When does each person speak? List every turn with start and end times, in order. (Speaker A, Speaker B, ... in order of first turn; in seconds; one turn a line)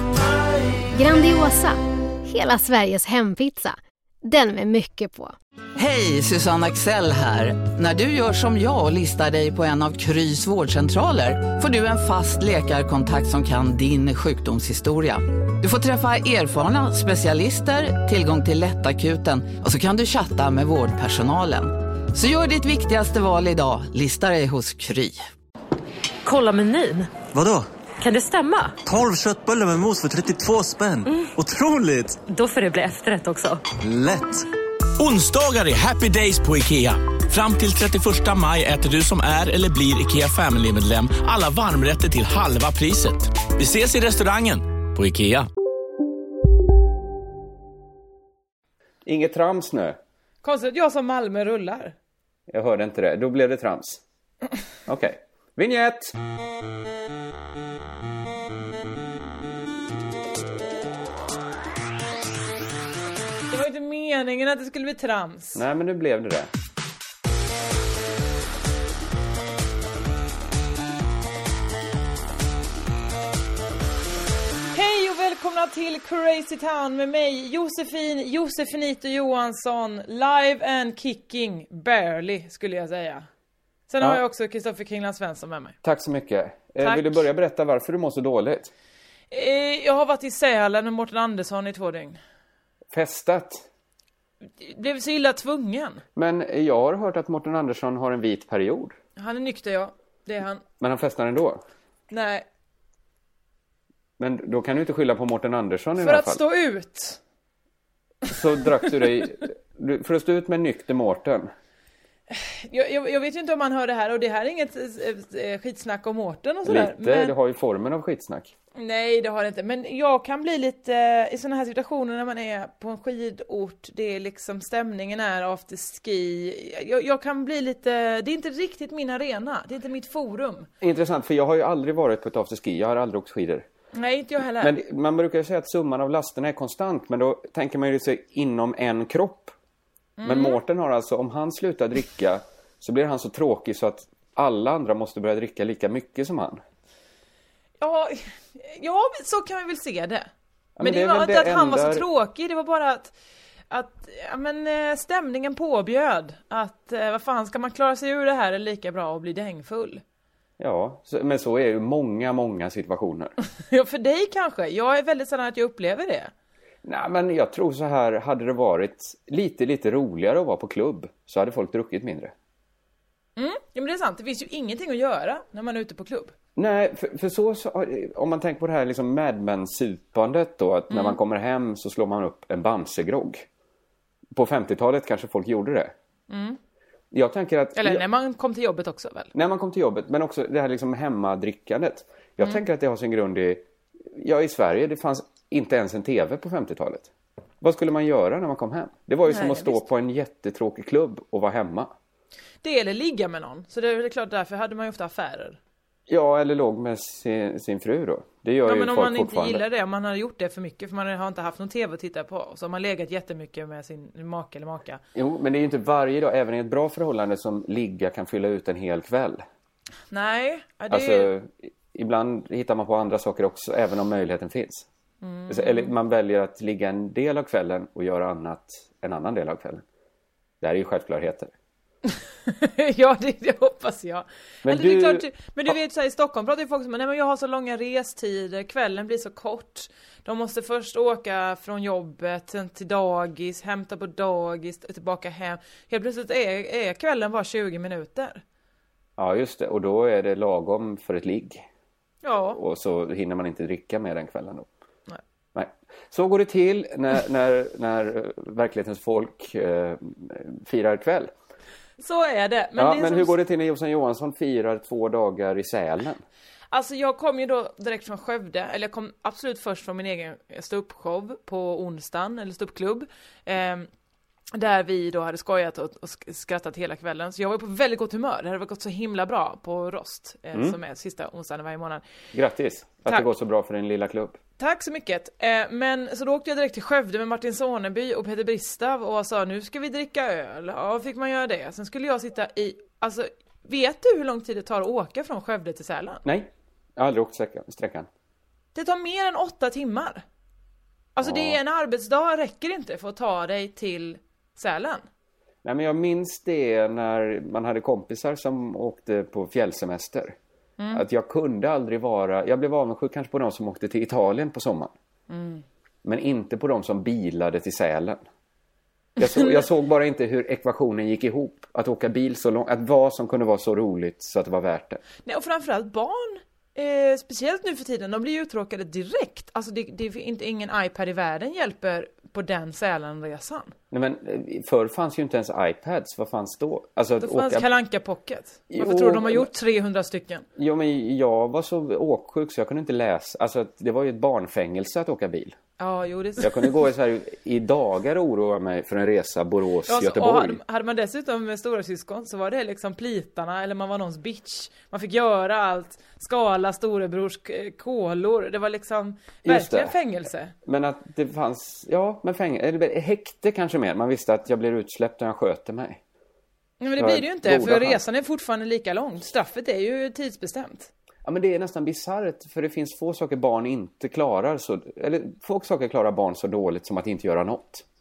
Speaker A: 0.9-5.3
Speaker B: 5.8-25.2
Speaker C: 26.2-27.1
Speaker D: 27.3-27.7
Speaker C: 28.0-28.8
Speaker D: 28.8-32.2
Speaker C: 32.3-33.6
Speaker D: 33.8-34.4
Speaker E: 35.0-45.5
Speaker F: 49.0-50.0
Speaker G: 50.4-51.9
Speaker F: 52.5-54.0
Speaker F: 54.9-56.1
Speaker G: 63.5-65.6
Speaker F: 65.5-66.5
Speaker G: 74.7-83.2
Speaker G: 83.9-85.8
Speaker F: 85.8-88.7
Speaker G: 86.8-87.2
Speaker G: 89.3-92.2
Speaker F: 92.9-93.6
Speaker G: 94.6-96.0
Speaker F: 96.2-99.0
Speaker G: 99.2-100.6
Speaker F: 100.8-101.6
Speaker G: 102.1-102.4
Speaker F: 104.2-106.4
Speaker G: 106.0-107.2
Speaker F: 108.3-111.5
Speaker G: 112.3-117.3
Speaker F: 116.6-118.5
Speaker G: 118.8-130.7
Speaker F: 130.8-133.7
Speaker G: 133.9-134.8
Speaker F: 134.6-139.5
Speaker G: 140.2-140.6
Speaker F: 140.2-146.6
Speaker G: 147.8-150.3
Speaker F: 150.8-152.0
Speaker G: 150.8-153.1
Speaker G: 153.7-160.0
Speaker F: 160.6-163.3
Speaker G: 163.6-166.3
Speaker F: 166.8-172.3
Speaker G: 173.4-176.3
Speaker F: 176.6-183.4
Speaker G: 180.9-181.2
Speaker F: 184.3-185.9
Speaker G: 186.3-186.6
Speaker F: 187.1-188.0
Speaker G: 187.8-189.3
Speaker F: 189.3-197.1
Speaker F: 197.6-201.9
Speaker G: 199.2-199.8
Speaker G: 202.6-205.6
Speaker F: 206.1-209.6
Speaker G: 208.6-215.0
Speaker F: 215.1-219.4
Speaker G: 220.1-221.3
Speaker F: 220.9-224.9
Speaker G: 225.2-225.9
Speaker F: 225.5-229.8
Speaker F: 230.6-231.5
Speaker G: 232.1-248.4
Speaker F: 234.6-235.7
Speaker F: 249.2-251.6
Speaker G: 252.2-252.6
Speaker F: 252.5-254.7
Speaker F: 255.5-261.3
Speaker G: 262.0-263.3
Speaker F: 262.8-266.2
Speaker G: 266.7-273.9
Speaker G: 274.5-282.0
Speaker F: 282.3-284.4
Speaker G: 284.6-296.2
Speaker F: 296.2-298.1
Speaker G: 298.7-300.2
Speaker G: 301.1-305.0
Speaker F: 301.2-301.6
Speaker F: 305.6-310.4
Speaker G: 310.8-311.0
Speaker F: 310.9-314.9
Speaker G: 315.3-315.6
Speaker F: 316.0-318.2
Speaker F: 319.2-325.0
Speaker G: 319.2-319.6
Speaker G: 325.2-333.7
Speaker F: 333.9-337.7
Speaker G: 337.2-340.4
Speaker F: 338.7-339.5
Speaker F: 340.6-345.6
Speaker G: 345.8-346.8
Speaker F: 346.4-350.6
Speaker G: 349.9-360.5
Speaker F: 359.4-359.9
Speaker F: 360.6-366.0
Speaker G: 366.8-370.9
Speaker F: 367.0-368.0
Speaker F: 371.2-377.8